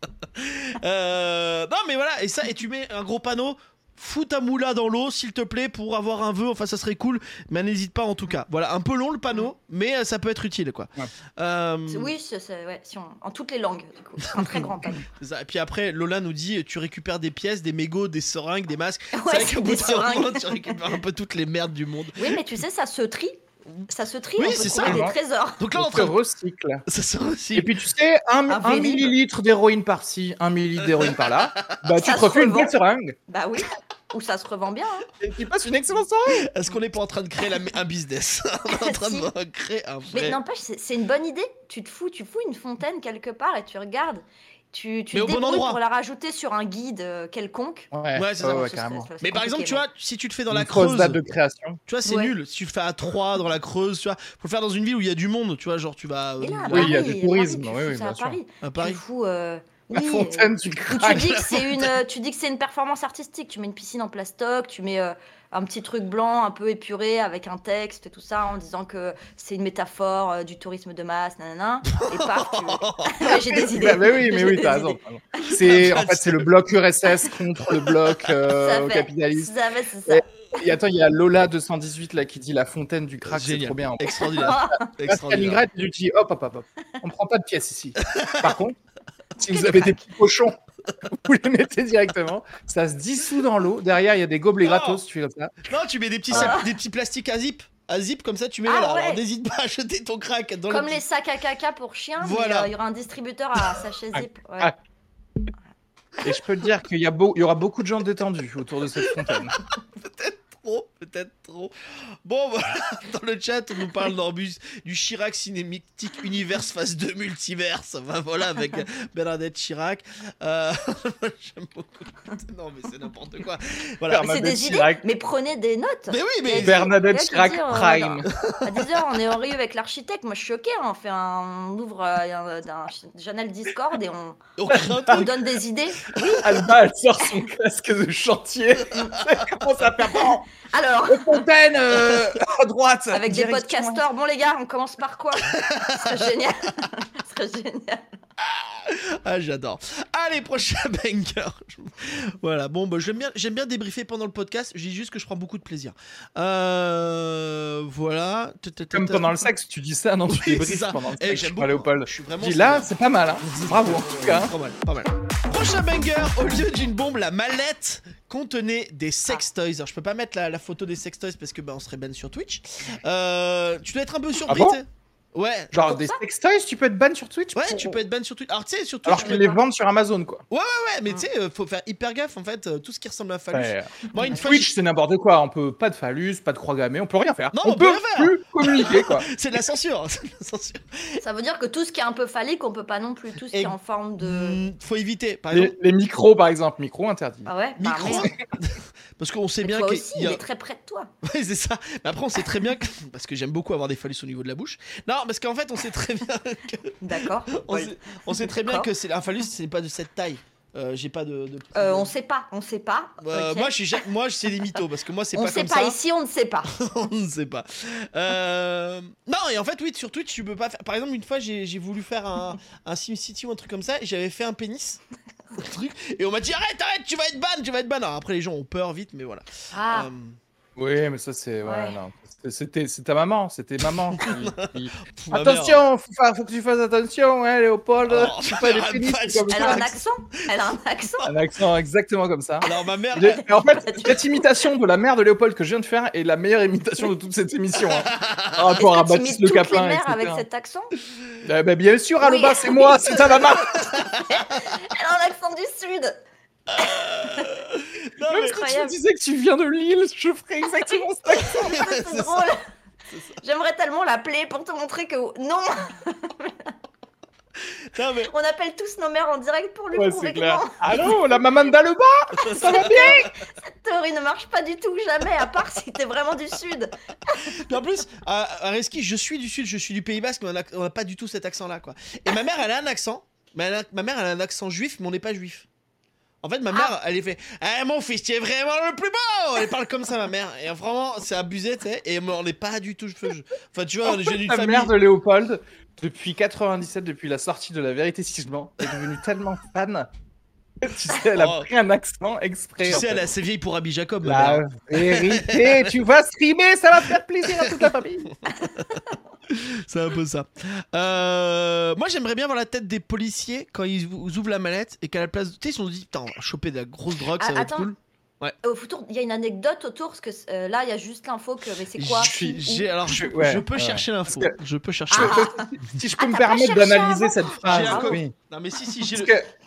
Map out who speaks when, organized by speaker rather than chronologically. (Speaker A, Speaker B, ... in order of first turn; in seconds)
Speaker A: 0.2-12.1, 14.2-22.4, 24.4-26.2, 26.9-27.7, 30.8-31.8, 36.3-40.4, 45.1-45.8, 48.1-51.2, 51.9-57.1, 58.6-59.0, 61.4-61.9, 71.9-74.0, 75.5-76.5, 77.7-78.3, 83.2-85.6, 88.0-88.6, 94.6-95.0, 95.6-101.0, 102.2-102.7, 109.0-124.3, 126.1-126.9, 128.3-129.2, 134.6-135.5, 136.1-136.7, 145.4-146.3, 148.4-159.5, 160.3-162.9, 163.4-175.9, 177.6-179.6, 180.5-184.7, 187.5-191.2, 193.5-195.8, 197.8-200.4, 201.2-212.1, 213.2-216.0, 216.7-225.0, 225.6-230.4, 234.1-235.8, 238.1-240.0, 242.6-243.4, 247.9-248.7, 253.6-254.7, 256.7-258.7, 261.4-262.5, 263.1-263.4, 267.9-268.3, 272.4-273.3, 277.4-285.7, 286.4-294.9, 301.1-301.7, 302.8-306.0, 307.4-318.6, 321.9-325.5, 327.6-329.4
Speaker B: 11.9-15.1, 19.1-20.9, 22.2-25.6, 28.5-29.1, 32.0-32.7, 33.3-35.1, 38.7-39.3, 40.1-49.8, 52.0-52.3, 56.4-75.5, 78.5-80.2, 84.2-84.9, 89.4-90.0, 96.3-96.7, 98.7-99.2, 100.7-104.7, 124.2-134.4, 135.1-136.1, 140.1-141.5, 143.1-148.0, 175.8-176.2, 179.1-179.6, 184.2-184.4, 191.2-194.6, 197.5-198.3, 199.6-201.1, 207.0-208.9, 211.8-214.0, 215.3-216.7, 229.7-230.1, 231.6-232.0, 239.5-241.3, 243.2-244.4, 248.8-250.9, 252.2-256.2, 256.8-257.6, 258.4-259.0, 260.7-262.6, 263.4-266.7, 268.2-271.1, 272.5-277.7, 308.5-309.2, 317.4-317.9, 318.6-322.9, 325.1-328.2
Speaker C: 24.8-25.1, 25.7-26.8, 27.5-33.2, 35.2-36.5, 47.9-49.1, 50.5-51.8, 56.7-58.4, 59.9-61.5, 73.7-79.5, 80.1-88.8, 89.4-95.5, 96.3-96.6, 104.1-104.8, 106.2-109.6, 124.1-125.0, 126.6-128.3, 134.7-135.2, 136.3-140.5, 141.1-144.0, 158.9-164.5, 174.5-174.8, 175.7-178.0, 179.1-180.4, 183.5-189.3, 195.5-197.5, 230.8-239.9, 241.2-250.4, 251.4-253.9, 258.3-261.8, 269.9-273.3, 294.1-300.1, 300.8-303.3, 304.2-308.3, 322.2-324.6, 325.1-328.3, 329.1-329.5